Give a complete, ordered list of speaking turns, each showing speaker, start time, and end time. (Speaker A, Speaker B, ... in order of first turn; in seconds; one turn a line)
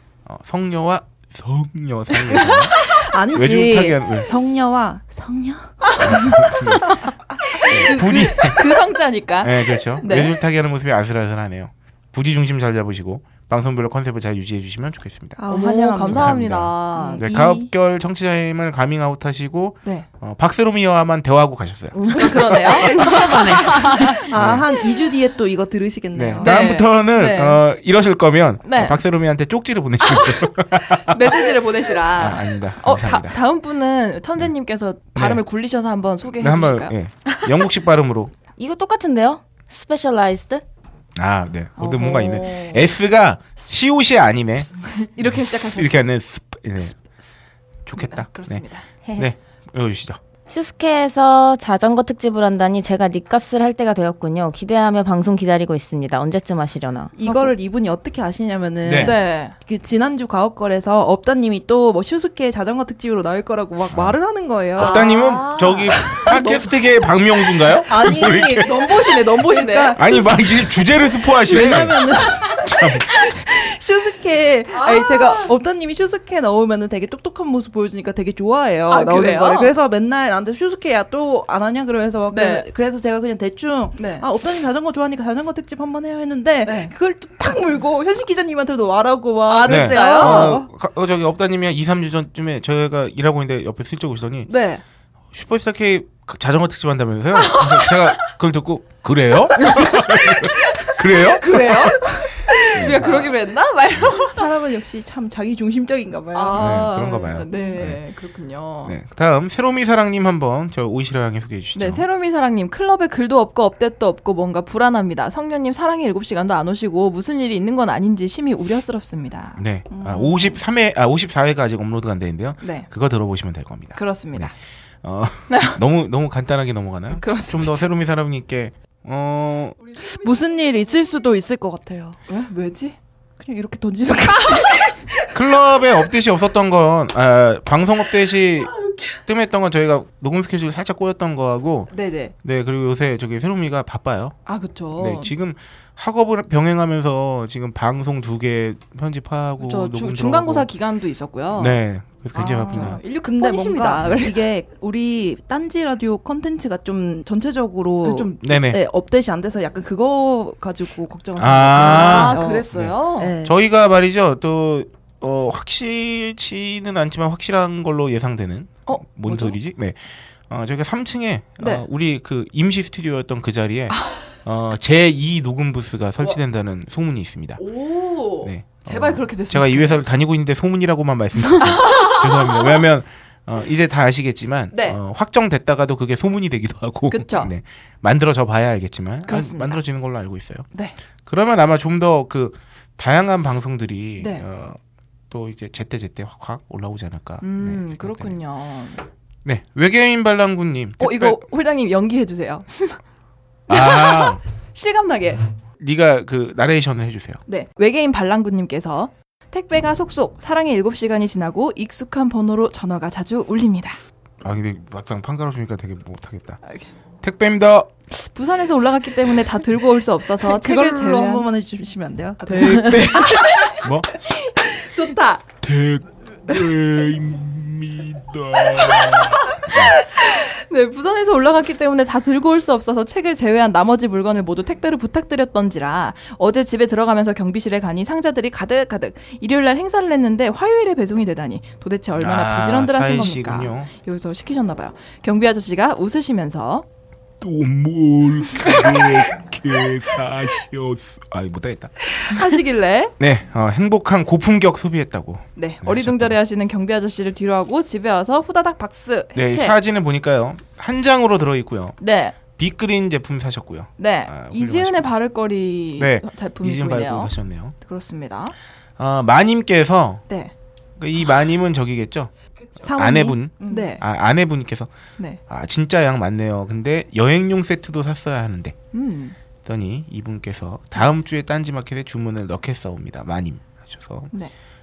Speaker A: 0.2-2.8
Speaker B: 2.3-2.6
Speaker C: 2.8-6.6
Speaker A: 3.3-4.3
Speaker B: 5.8-10.3
Speaker A: 6.0-6.9
Speaker C: 7.6-7.9
Speaker A: 7.7-8.7
Speaker A: 9.4-15.4
Speaker C: 15.4-16.4
Speaker B: 15.5-17.2
Speaker A: 16.1-23.2
Speaker C: 16.9-17.7
Speaker D: 21.9-22.3
Speaker B: 22.1-24.2
Speaker D: 22.9-24.1
Speaker C: 24.0-26.7
Speaker A: 24.3-24.7
Speaker A: 26.1-31.5
Speaker B: 26.4-27.6
Speaker B: 28.6-29.0
Speaker B: 30.1-36.9
Speaker A: 32.1-33.4
Speaker A: 35.1-35.4
Speaker A: 36.4-38.3
Speaker D: 38.6-40.6
Speaker A: 41.1-46.9
Speaker B: 41.8-42.8
Speaker B: 44.8-46.0
Speaker A: 47.9-50.2
Speaker B: 47.9-48.9
Speaker D: 50.5-57.1
Speaker C: 57.1-65.3
Speaker B: 57.2-57.5
Speaker A: 58.8-59.1
Speaker B: 59.0-59.5
Speaker A: 63.9-64.2
Speaker A: 64.7-68.9
Speaker B: 64.8-66.7
Speaker C: 66.0-66.5
Speaker C: 67.7-90.7
Speaker B: 68.0-70.0
Speaker A: 69.9-72.1
Speaker A: 72.6-73.1
Speaker B: 74.7-75.5
Speaker B: 78.9-79.7
Speaker B: 82.3-82.7
Speaker B: 84.0-84.2
Speaker B: 86.6-86.9
Speaker B: 89.5-90.6
Speaker A: 89.6-94.5
Speaker B: 94.5-94.8
Speaker A: 95.3-102.2
Speaker B: 97.4-98.0
Speaker B: 99.7-104.5
Speaker A: 102.7-103.2
Speaker C: 102.9-103.3
Speaker C: 104.2-106.9
Speaker B: 106.3-109.0
Speaker A: 106.5-108.0
Speaker C: 107.5-107.8
Speaker A: 108.8-112.0
Speaker B: 111.7-119.6
Speaker A: 119.6-129.8
Speaker C: 119.9-120.6
Speaker B: 122.6-122.9
Speaker B: 124.0-124.5
Speaker B: 125.5-125.8
Speaker B: 127.1-127.8
Speaker B: 129.8-131.2
Speaker C: 130.0-132.2
Speaker B: 132.3-133.0
Speaker C: 133.4-135.1
Speaker B: 134.6-134.9
Speaker A: 135.3-138.7
Speaker B: 138.8-139.1
Speaker A: 139.2-141.9
Speaker B: 141.9-142.3
Speaker A: 142.4-144.4
Speaker B: 144.4-145.3
Speaker A: 144.9-150.7
Speaker B: 149.6-151.8
Speaker A: 151.5-153.0
Speaker B: 152.3-154.4
Speaker C: 152.4-163.5
Speaker B: 158.0-158.5
Speaker A: 158.4-158.8
Speaker A: 161.4-177.6
Speaker B: 161.8-163.3
Speaker B: 168.8-169.6
Speaker B: 171.6-171.8
Speaker B: 177.6-180.0
Speaker A: 178.4-190.7
Speaker B: 181.5-182.8
Speaker B: 184.7-185.0
Speaker B: 187.1-187.5
Speaker B: 189.2-189.8
Speaker A: 191.2-194.8
Speaker B: 194.2-194.4
Speaker A: 195.3-198.3
Speaker B: 197.4-199.0
Speaker A: 199.4-201.4
Speaker B: 201.0-203.0
Speaker A: 203.7-204.4
Speaker B: 203.7-205.4
Speaker A: 205.8-207.4
Speaker B: 207.5-214.0
Speaker A: 214.4-216.6
Speaker A: 217.2-217.9
Speaker B: 218.1-221.5
Speaker C: 220.4-223.8
Speaker B: 222.4-223.8
Speaker A: 223.8-224.1
Speaker B: 224.7-225.4
Speaker E: 225.6-229.6
Speaker B: 229.1-246.8
Speaker A: 242.2-243.9
Speaker E: 247.4-251.3
Speaker A: 251.2-251.9
Speaker B: 252.1-253.1
Speaker A: 253.2-256.4
Speaker B: 255.6-259.7
Speaker A: 259.3-261.9
Speaker B: 262.0-262.3
Speaker A: 262.5-265.1
Speaker B: 264.0-268.5
Speaker A: 266.0-267.7
Speaker A: 269.0-270.2
Speaker A: 271.0-272.3
Speaker C: 272.8-273.9
Speaker A: 272.9-274.9
Speaker B: 273.7-274.0
Speaker A: 275.5-278.8
Speaker B: 278.9-279.4
Speaker A: 279.6-284.3